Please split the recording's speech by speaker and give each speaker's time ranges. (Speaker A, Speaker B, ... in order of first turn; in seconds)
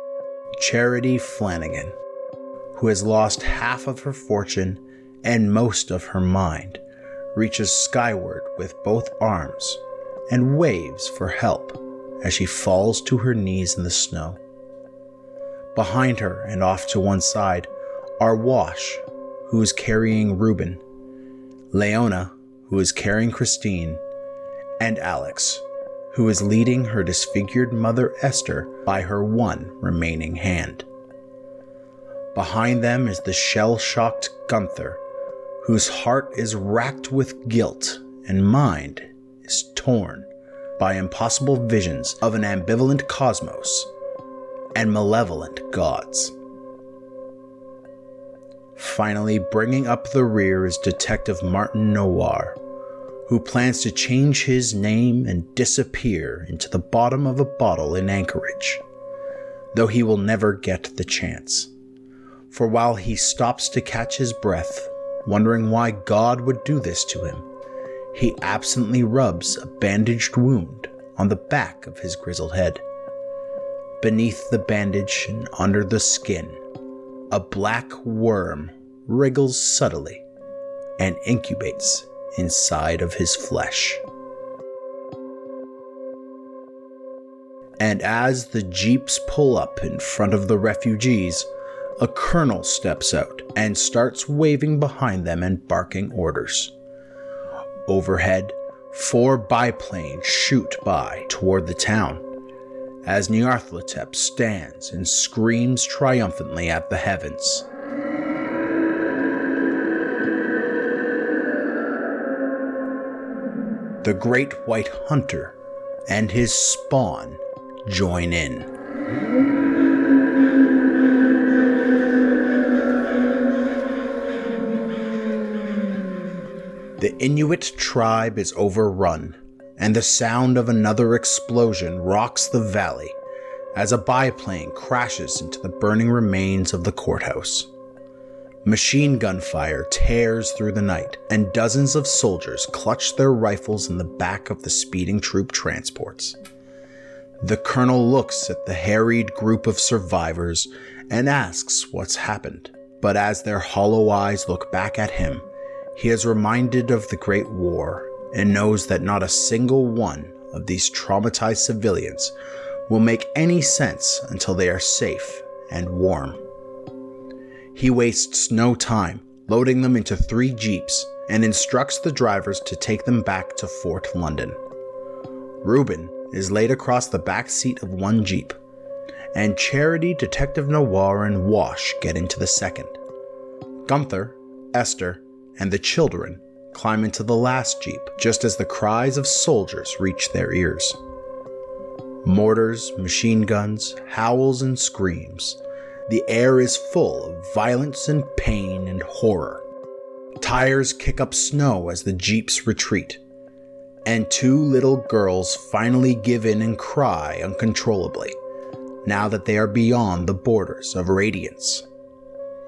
Speaker A: 0.6-1.9, 2.7-6.8, 7.3-14.4, 15.7-20.8, 21.7-24.0, 24.8-30.9, 32.3-35.0, 35.6-43.9, 44.7-46.3, 48.8-52.6, 53.3-58.8, 59.7-61.7, 62.5-67.5, 68.1-72.8, 74.0-76.6, 77.3-80.2, 81.0-84.0, 87.8-91.5, 92.0-96.7, 97.9-102.2, 103.0-107.7, 114.0-115.5, 116.1-118.7, 127.0-133.2, 133.7-137.7, 138.6-146.4, 147.4-162.3, 162.9-166.4, 167.7-174.6, 175.6-178.6, 179.3-183.0, 183.8-191.0, 192.2-199.6, 200.4-203.2, 204.0-208.3, 209.0-211.8